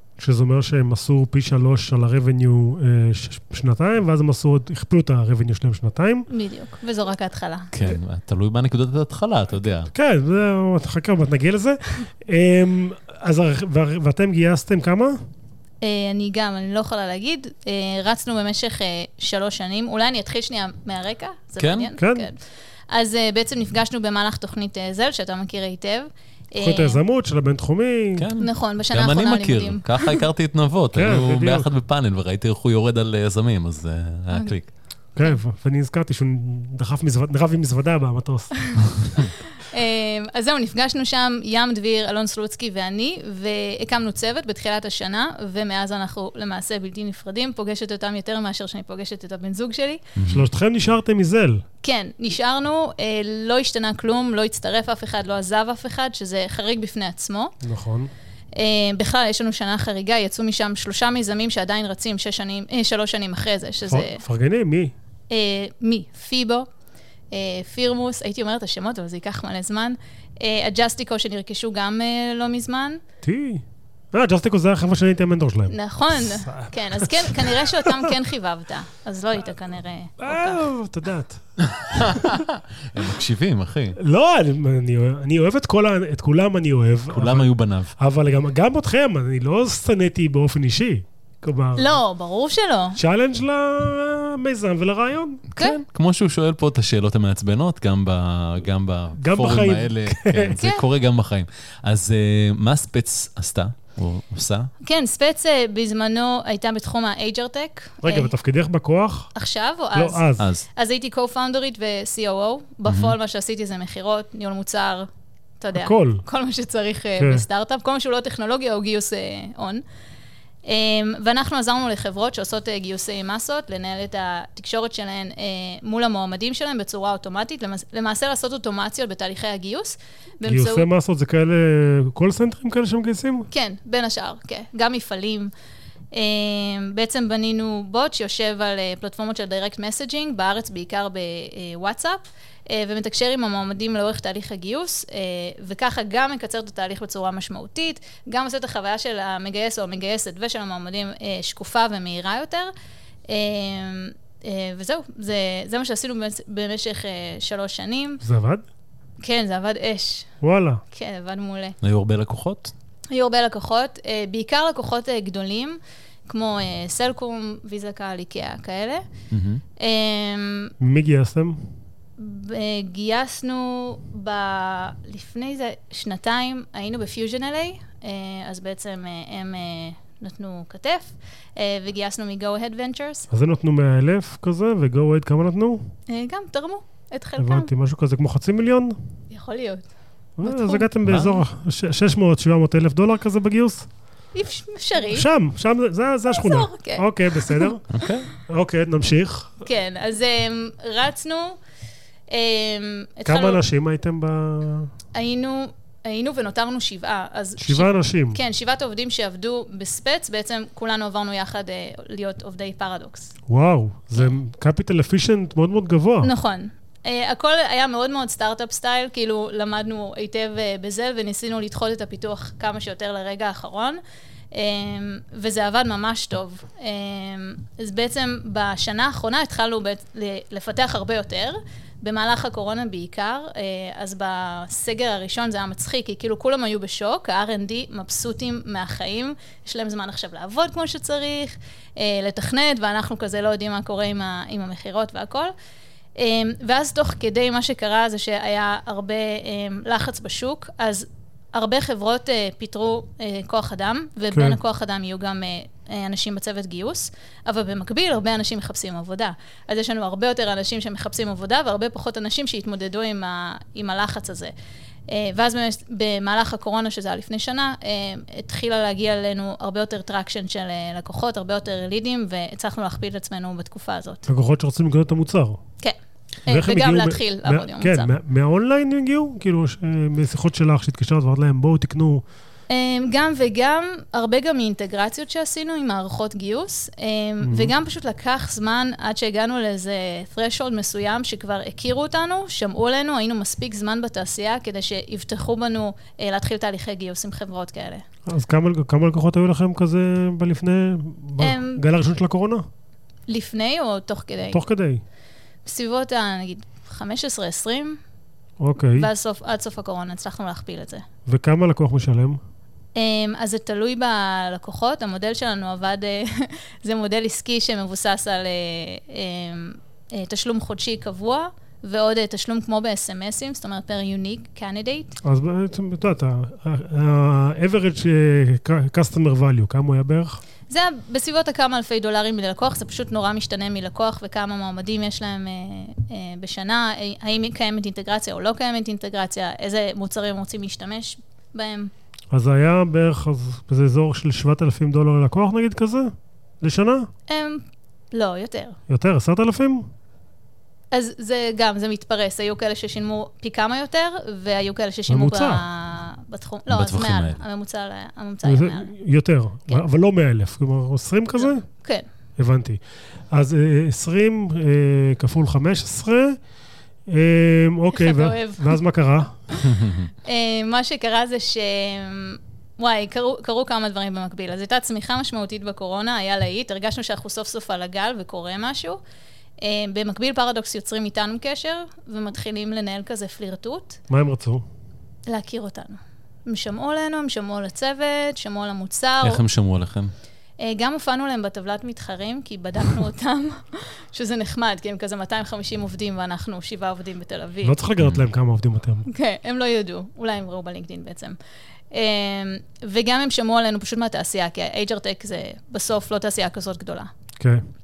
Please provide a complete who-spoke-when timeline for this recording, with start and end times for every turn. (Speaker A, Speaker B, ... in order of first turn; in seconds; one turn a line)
Speaker A: 0.2-6.3
Speaker B: 6.3-7.7
Speaker C: 7.7-9.9
Speaker A: 9.9-15.2
Speaker B: 15.8-22.4
Speaker C: 21.6-21.9
Speaker A: 22.0-22.3
Speaker B: 22.9-27.0
Speaker A: 26.6-28.3
Speaker C: 28.2-34.7
Speaker B: 28.4-30.2
Speaker A: 30.9-31.7
Speaker A: 35.2-39.3
Speaker B: 39.6-50.0
Speaker C: 50.2-50.5
Speaker A: 50.3-51.6
Speaker B: 51.8-57.5
Speaker A: 57.6-58.1
Speaker B: 58.5-64.2
Speaker A: 63.9-64.9
Speaker B: 65.3-66.7
Speaker B: 67.3-73.0
Speaker A: 73.2-78.2
Speaker B: 75.7-80.7
Speaker A: 80.2-82.4
Speaker C: 81.6-84.0
Speaker A: 84.0-92.0
Speaker C: 87.1-87.9
Speaker B: 91.8-93.0
Speaker A: 93.0-95.4
Speaker C: 95.5-104.7
Speaker A: 99.2-100.6
Speaker B: 100.6-100.8
Speaker B: 104.8-108.3
Speaker A: 108.0-109.3
Speaker B: 109.3-115.1
Speaker A: 110.0-110.5
Speaker C: 110.4-110.7
Speaker C: 112.9-113.1
Speaker B: 115.6-119.8
Speaker A: 115.8-116.2
Speaker A: 117.2-117.4
Speaker B: 120.7-130.9
Speaker A: 130.4-133.5
Speaker B: 133.5-135.5
Speaker B: 136.1-152.7
Speaker B: 153.3-158.2
Speaker A: 158.2-158.7
Speaker B: 159.2-160.3
Speaker A: 160.4-160.8
Speaker B: 160.9-161.8
Speaker C: 161.8-162.7
Speaker B: 163.1-169.1
Speaker C: 169.3-169.6
Speaker B: 169.8-170.7
Speaker A: 170.8-171.7
Speaker B: 172.2-183.3
Speaker A: 183.3-185.9
Speaker B: 186.1-187.7
Speaker A: 187.4-189.0
Speaker B: 189.3-189.9
Speaker A: 190.4-193.9
Speaker B: 190.4-190.9
Speaker C: 191.1-191.4
Speaker B: 194.3-195.3
Speaker A: 195.1-197.8
Speaker B: 196.3-197.7
Speaker C: 197.9-198.3
Speaker A: 198.5-199.5
Speaker B: 199.6-201.6
Speaker B: 202.3-203.6
Speaker A: 203.2-204.9
Speaker B: 205.1-213.3
Speaker A: 207.6-208.4
Speaker A: 213.5-216.3
Speaker B: 216.2-224.0
Speaker B: 224.5-245.5
Speaker B: 246.2-264.5
Speaker A: 254.3-254.6
Speaker B: 265.1-274.3
Speaker A: 274.3-275.6
Speaker B: 275.8-278.1
Speaker A: 276.5-282.2
Speaker B: 282.7-298.0
Speaker A: 287.4-287.7
Speaker A: 298.3-302.6
Speaker B: 301.4-301.8
Speaker B: 303.3-304.6
Speaker A: 304.5-305.0
Speaker B: 305.6-308.0
Speaker A: 308.6-309.1
Speaker B: 309.0-311.1
Speaker A: 311.3-312.4
Speaker B: 312.9-325.2
Speaker A: 325.2-330.4
Speaker B: 330.7-341.9
Speaker A: 342.3-347.1
Speaker B: 347.3-348.8
Speaker A: 348.9-349.9
Speaker B: 350.9-358.9
Speaker A: 355.1-355.6
Speaker C: 356.7-357.4
Speaker A: 358.4-361.6
Speaker B: 361.4-362.1
Speaker A: 362.4-362.8
Speaker A: 363.3-366.4
Speaker A: 367.1-369.4
Speaker B: 367.9-368.8
Speaker C: 369.6-370.1
Speaker B: 370.2-379.0
Speaker B: 379.6-384.0
Speaker A: 384.1-384.6
Speaker B: 385.3-389.4
Speaker C: 389.2-390.1
Speaker B: 390.6-397.8
Speaker A: 397.6-399.1
Speaker B: 399.1-401.4
Speaker B: 401.9-407.1